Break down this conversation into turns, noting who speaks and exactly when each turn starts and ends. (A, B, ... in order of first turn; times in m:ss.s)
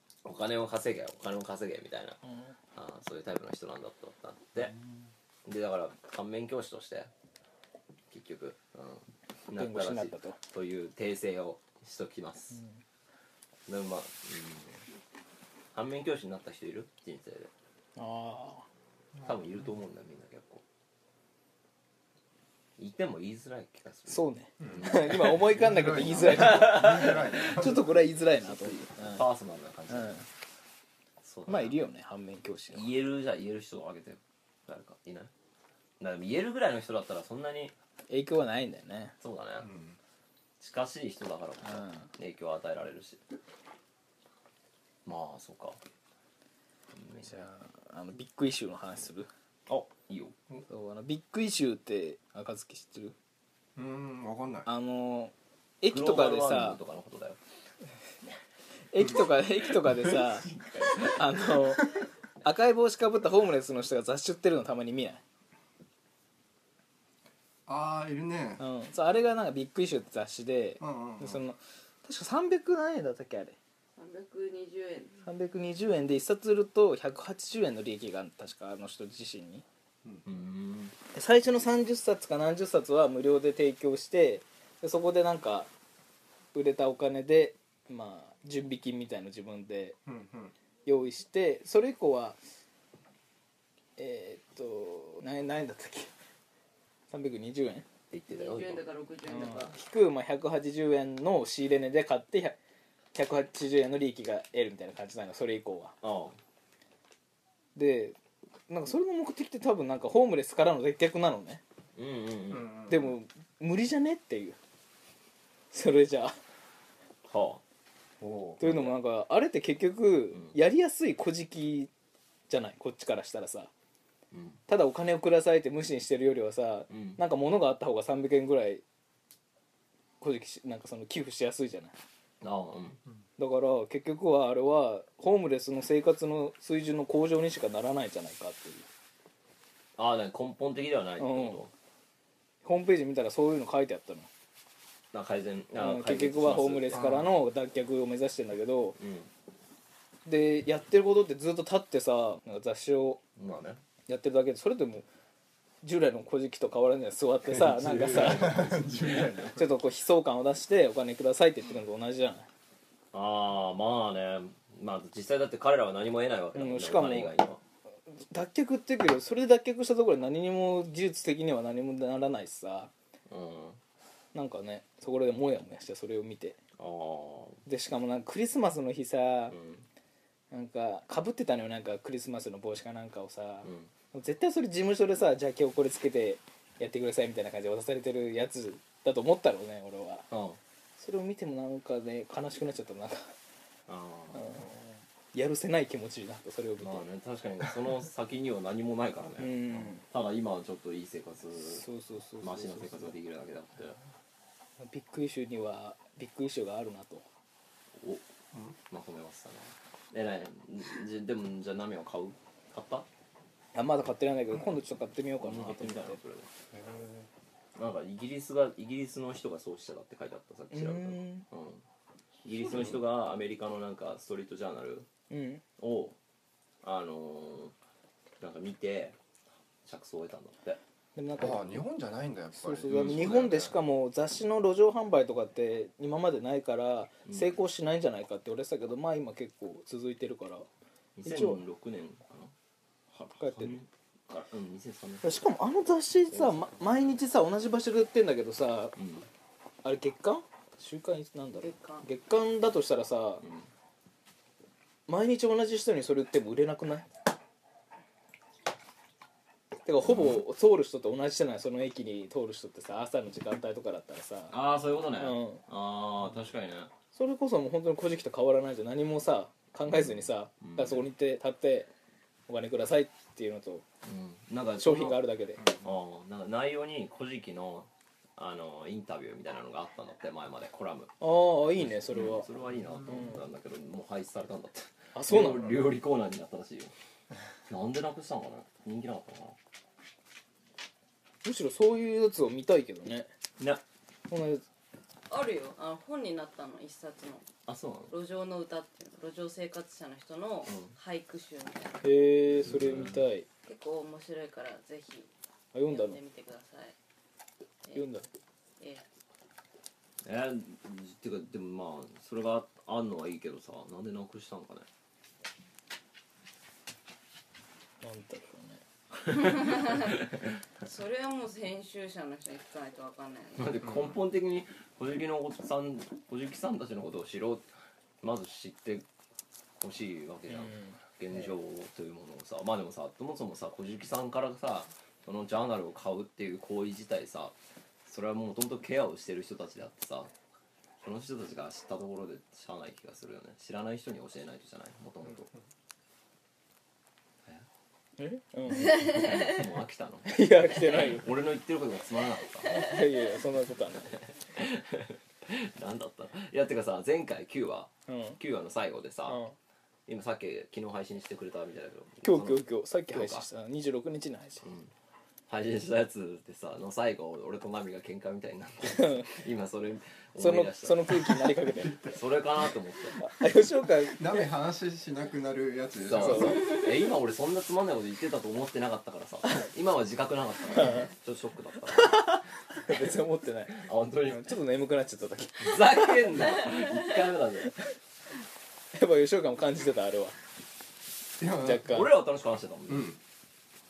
0:00.2-0:02.2 A
0:02.7-0:04.7 A
0:05.4-0:07.1 A
0:08.1-0:12.6 A
0:09.5-0:10.4 B
0:13.7-0:14.8 A
0:15.7-0:17.5 A
0:18.0-0:18.6 B
0:19.2-0:20.6 A
0:22.8-0:30.2 A
0:24.1-0:29.2 B
0:24.6-0:27.9 C
0:29.9-0:30.2 B
0:31.2-0:31.7 A
0:31.5-0:32.9 B
0:32.7-0:35.3 A
0:36.0-0:37.7 A
0:38.1-0:39.1 B
0:39.2-0:39.7 A
0:39.6-0:40.0 C
0:40.6-0:43.2 A
0:41.6-0:42.1 B
0:45.0-0:45.8 A
0:46.9-0:47.4 A
0:47.2-0:49.3 B
0:49.7-0:50.4 A
0:50.7-0:53.1 B
0:53.8-0:54.7 C
0:54.6-0:56.8 B
0:55.9-0:57.4 A
0:58.9-1:05.2 B
0:59.9-1:00.9 C
1:07.7-1:08.6 C
1:08.6-1:13.6 B
1:10.8-1:11.4 C
1:14.0-1:15.2 D
1:15.2-1:19.6 B
1:20.2-1:20.9 A
1:21.1-1:25.7 B
1:26.5-1:30.0 B
1:30.0-1:30.5 C
1:30.8-1:32.4 B
1:34.0-1:36.1 B
1:37.1-1:37.9 B
1:38.1-1:38.8 A
1:38.3-1:39.7 D
1:39.3-1:42.6 B
1:43.1-1:45.9 B
1:46.0-1:46.4 A
1:47.8-1:48.2 B
1:48.7-1:51.6 B
1:52.0-1:52.9 A
1:52.5-1:52.9 C
1:52.9-1:54.6 B
1:55.7-1:56.4 B
1:57.3-1:57.6 A
1:58.2-1:58.6 C
1:58.6-2:01.9 B
1:58.6-1:58.9 A
2:02.5-2:03.7 B
2:04.3-2:04.6 A
2:04.7-2:08.8 B
2:06.9-2:07.2 A
2:10.2-2:12.0 B
2:12.4-2:13.0 A
2:13.4-2:18.9 B
2:20.0-2:21.7 A
2:21.2-2:21.6 B
2:22.6-2:24.3 B
2:25.1-2:27.1 A
2:25.8-2:29.0 B
2:26.9-2:27.3 C
2:29.0-2:29.3 A
2:30.2-2:33.2 B
2:33.4-2:33.8 A
2:34.1-2:35.1 B
2:35.8-2:38.7 B
2:37.5-2:39.5 A
2:37.9-2:39.6 C
2:39.5-2:42.5 B
2:43.1-2:47.6 A
2:46.5-2:47.4 B
2:48.1-2:52.9 B
2:53.3-2:53.8 A
2:54.3-2:56.6 B
2:56.8-2:57.6 A
2:57.6-2:59.5 B
2:59.5-2:59.8 A
3:00.5-3:10.3 B
3:03.6-3:03.9 A
3:10.3-3:10.6 A
3:11.0-3:13.3 B
3:13.9-3:14.7 A
3:14.3-3:17.1 B
3:16.8-3:21.8 A
3:19.4-3:20.0 B
3:21.6-3:23.1 B
3:22.4-3:24.0 A
3:24.8-3:27.2 B
3:28.0-3:28.2 A
3:28.9-3:33.1 A
3:33.7-3:36.2 B
3:35.4-3:36.5 A
3:36.7-3:37.2 C
3:37.7-3:41.8 A
3:40.7-3:41.4 B
3:42.4-3:45.1 A
3:45.3-3:45.6 B
3:45.8-3:46.1 A
3:46.8-3:47.7 A
3:48.4-3:49.2 A
3:49.8-3:50.8 A
3:51.2-3:51.8 B
3:51.4-3:53.4 C
3:52.6-4:00.7 B
3:52.8-3:53.7 A
3:57.3-3:57.5 A
4:01.2-4:02.5 A
4:01.2-4:01.6 B
4:03.2-4:03.8 B
4:03.4-4:05.4 A
4:05.2-4:08.9 B
4:06.3-4:06.8 A
4:09.0-4:09.3 A
4:09.8-4:13.4 B
4:11.6-4:12.0 D
4:13.4-4:13.7 A
4:15.1-4:17.1 B
4:19.8-4:24.6 B
4:20.0-4:20.4 A
4:24.5-4:26.9 A
4:25.2-4:25.6 B
4:27.1-4:31.9 B
4:29.9-4:31.0 A
4:32.5-4:33.8 B
4:34.0-4:35.2 A
4:34.8-4:35.7 B
4:35.8-4:41.1 A
4:41.2-4:42.5 B
4:41.7-4:46.9 A
4:43.1-4:43.4 B
4:45.1-4:45.8 B
4:47.7-4:49.6 A
4:51.4-4:53.3 B
4:54.3-4:54.6 B
4:55.3-4:57.5 D
4:57.6-4:58.1 A
4:58.1-5:02.0 D
5:00.6-5:00.9 A
5:02.0-5:03.5 B
5:02.5-5:03.2 A
5:03.6-5:05.3 D
5:05.7-5:06.2 B
5:05.9-5:06.9 D
5:07.9-5:08.3 B
5:10.2-5:14.9 A
5:18.0-5:18.8 B
5:19.4-5:20.1 D
5:19.9-5:20.5 A
5:20.8-5:23.7 D
5:23.6-5:27.7 A
5:28.2-5:29.0 A
5:29.8-5:37.5 A
5:38.0-5:40.3 A
5:41.0-5:45.5 A
5:48.2-5:49.3 B
5:48.7-5:52.8 A
5:50.3-5:51.3 B
5:52.6-5:54.2 B
5:54.5-5:59.4 A
5:58.1-5:58.4 B
5:59.3-5:59.5 B
6:00.1-6:03.4 A
6:02.2-6:04.6 B
6:04.6-6:04.9 A
6:05.5-6:13.2 A
6:08.9-6:09.3 B
6:10.4-6:12.1 B
6:13.2-6:14.4 B
6:14.2-6:16.9 C
6:16.0-6:22.3 A
6:16.2-6:16.7 B
6:20.8-6:21.1 B
6:21.9-6:26.3 B
6:23.7-6:24.6 A
6:25.6-6:27.8 A
6:28.9-6:30.4 B
6:31.4-6:32.0 C
6:31.6-6:32.1 B
6:31.8-6:33.2 A
6:32.9-6:33.2 C